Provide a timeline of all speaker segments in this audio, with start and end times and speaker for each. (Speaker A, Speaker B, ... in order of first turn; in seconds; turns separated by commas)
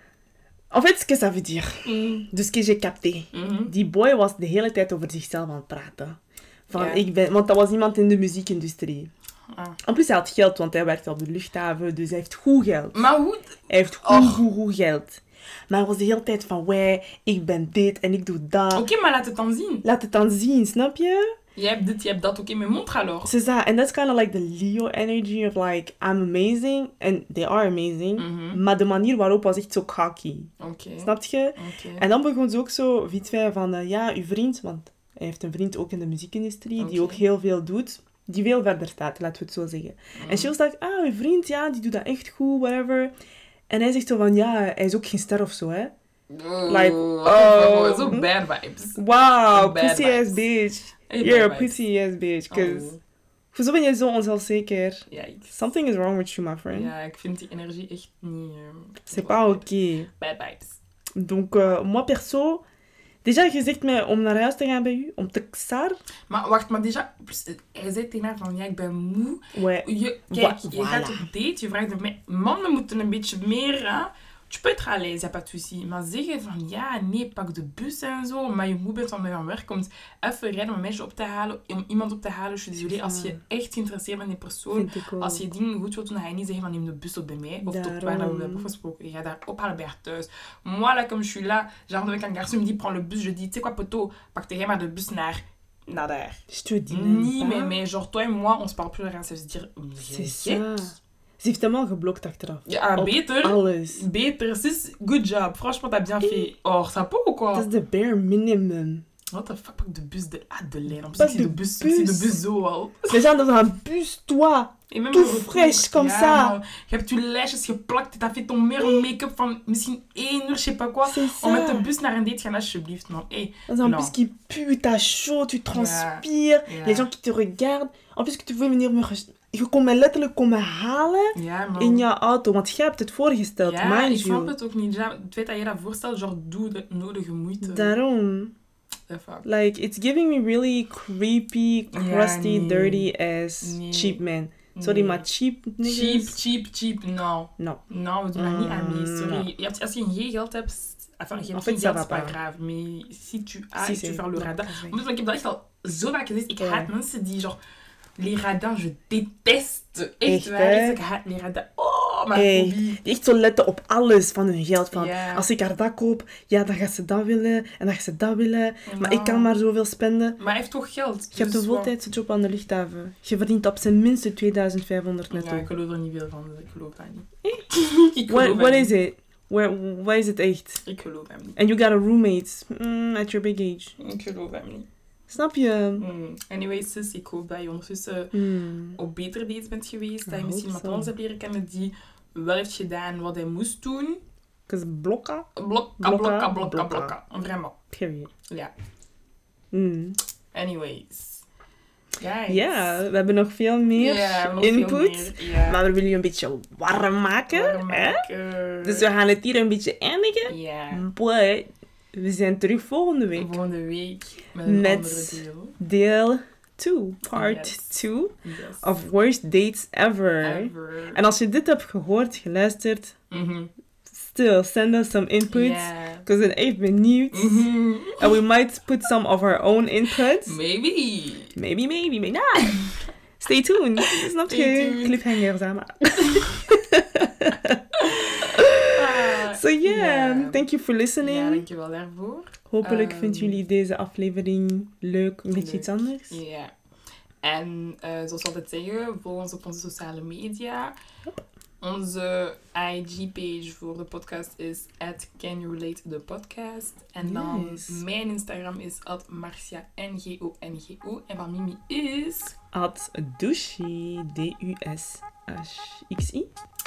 Speaker A: 0.7-9.1, Speaker B: 1.9-2.3, Speaker B: 3.3-3.7, Speaker B: 6.7-7.0, Speaker B: 9.5-9.8, Speaker A: 9.8-13.1, Speaker B: 12.9-14.4, Speaker A: 13.7-18.9, Speaker B: 18.7-19.9, Speaker A: 19.8-21.3, Speaker B: 21.6-23.3, Speaker A: 23.2-43.1, Speaker B: 28.2-28.6, Speaker B: 30.6-32.1, Speaker B: 36.8-37.2, Speaker B: 40.2-40.5, Speaker A: 43.7-45.9, Speaker B: 46.3-49.0, Speaker A: 46.7-48.3, Speaker A: 49.0-52.9, Speaker B: 49.5-50.4, Speaker B: 51.1-51.8, Speaker B: 52.5-53.0, Speaker A: 53.5-56.9, Speaker B: 55.1-55.6, Speaker B: 56.7-60.8, Speaker A: 59.1-60.1, Speaker A: 61.2-62.6, Speaker A: 63.2-66.0, Speaker B: 66.3-100.7, Speaker A: 69.5-71.3, Speaker A: 82.8-83.4, Speaker A: 84.7-85.5, Speaker A: 87.6-88.7, Speaker A: 96.5-97.8, Speaker A: 100.0-104.0, Speaker B: 102.7-107.7, Speaker A: 106.2-106.5, Speaker A: 107.5-109.0, Speaker B: 109.3-113.2, Speaker A: 110.9-112.4, Speaker A: 113.1-116.6, Speaker B: 114.9-124.1, Speaker A: 118.8-119.1, Speaker A: 121.0-121.9, Speaker A: 123.7-134.6, Speaker B: 125.7-127.1, Speaker B: 131.3-132.1, Speaker B: 133.6-138.0, Speaker A: 137.6-138.5, Speaker B: 139.1-139.5, Speaker A: 139.4-146.4, Speaker B: 141.9-143.1, Speaker B: 143.6-144.2, Speaker B: 144.7-145.3, Speaker B: 145.8-157.6, Speaker A: 148.3-149.5, Speaker A: 151.4-152.4, Speaker A: 153.8-155.0, Speaker A: 156.6-156.9, Speaker B: 158.2-163.0, Speaker A: 160.2-161.0, Speaker A: 162.3-170.4, Speaker B: 164.9-165.5, Speaker B: 168.9-169.5, Speaker B: 170.4-171.9, Speaker A: 171.3-175.7, Speaker B: 175.3-179.0, Speaker A: 178.3-180.8, Speaker B: 180.8-181.6, Speaker A: 181.6-184.0, Speaker B: 184.0-184.9, Speaker A: 185.3-186.1, Speaker B: 186.0-188.3, Speaker A: 188.3-189.0, Speaker B: 189.0-194.2, Speaker A: 190.2-191.1, Speaker A: 194.7-195.5, Speaker B: 195.6-197.8, Speaker A: 196.0-197.2, Speaker A: 197.9-198.3, Speaker B: 198.5-198.7, Speaker A: 199.7-200.2, Speaker B: 200.5-201.4, Speaker B: 202.2-203.0, Speaker A: 202.5-208.2, Speaker B: 203.9-205.8, Speaker B: 207.5-209.1, Speaker A: 208.8-213.6, Speaker B: 210.4-211.1, Speaker B: 213.3-215.8, Speaker A: 214.7-223.2, Speaker B: 217.3-217.9, Speaker B: 218.4-218.9, Speaker B: 220.4-221.2, Speaker B: 223.3-223.7, Speaker A: 224.1-230.6, Speaker B: 225.5-226.3, Speaker B: 227.3-228.3, Speaker B: 230.4-231.6, Speaker A: 231.6-232.8, Speaker A: 233.4-237.8, Speaker B: 234.1-235.3, Speaker B: 236.2-236.5, Speaker B: 238.0-240.7, Speaker A: 238.5-241.7, Speaker B: 241.2-243.6, Speaker A: 242.7-246.4, Speaker B: 245.5-246.7, Speaker B: 247.4-251.0, Speaker B: 251.8-262.6, Speaker A: 257.2-258.0, Speaker A: 262.7-266.5